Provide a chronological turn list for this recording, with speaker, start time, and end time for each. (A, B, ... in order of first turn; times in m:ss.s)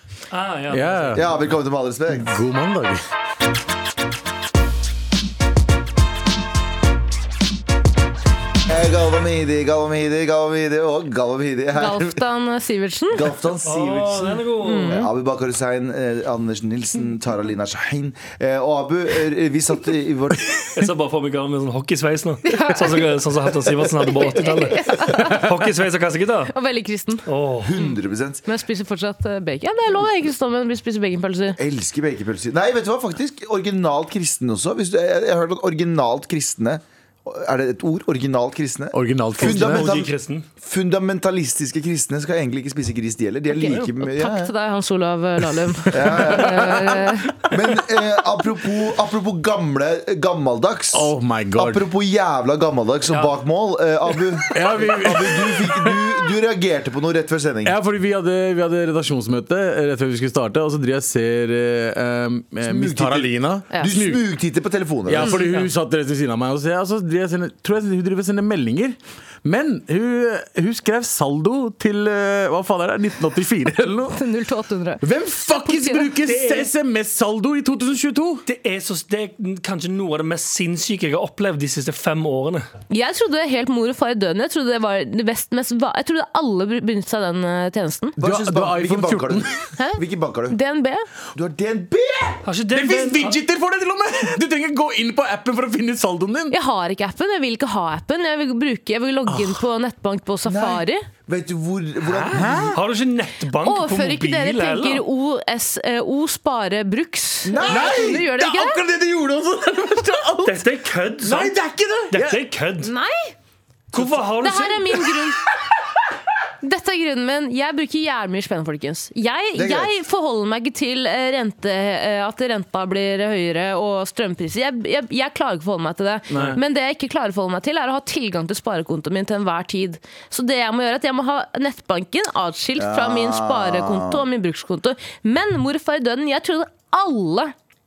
0:00.3-0:01.2 A
0:00.7-0:01.2 B
0:01.1-0:02.4 C
0:02.2-0:03.0 B
0:08.6-0:12.2 C
0:11.7-0:13.3 D
0:13.1-0:20.7 C
0:13.6-0:15.0 A
0:14.6-0:15.1 D
0:20.6-0:26.5 A
0:22.5-0:23.0 D
0:24.0-0:25.4 D
0:26.5-0:27.2 D
0:27.2-0:27.7 A
0:27.6-0:28.4 C
0:28.4-0:31.6 D
0:31.6-0:44.5 C
0:38.9-0:39.8 B
0:39.4-0:40.4 A
0:43.5-0:47.3 D
0:45.9-0:46.9 C
0:46.1-0:47.2 B
0:47.5-0:57.8 C
0:50.9-0:51.8 B
0:53.1-0:53.3 A
0:54.5-0:56.0 B
0:57.6-1:04.2 B
1:02.6-1:05.4 C
1:05.1-1:14.2 B
1:05.2-1:05.7 A
1:14.1-1:15.0 D
1:15.0-1:18.4 B
1:15.6-1:16.1 D
1:16.2-1:16.7 A
1:18.4-1:22.7 A
1:22.9-1:28.2 D
1:28.2-1:30.6 C
1:28.2-1:29.6 B
1:29.8-1:31.0 D
1:31.3-1:32.4 C
1:32.4-1:33.4 A
1:32.7-1:36.6 B
1:36.5-1:41.0 D
1:39.3-1:39.6 B
1:40.4-1:42.8 C
1:42.1-1:42.8 B
1:42.7-1:45.0 A
1:43.6-1:48.8 D
1:47.4-1:48.2 C
1:47.6-1:50.6 B
1:50.4-1:51.5 A
1:51.2-1:52.4 B
1:52.1-1:52.9 A
1:52.8-1:53.3 D
1:53.9-1:54.2 B
1:53.9-1:54.8 A
1:54.4-1:55.4 D
1:56.6-2:17.5 D
1:59.5-1:59.9 C
2:06.3-2:06.6 B
2:12.8-2:14.2 C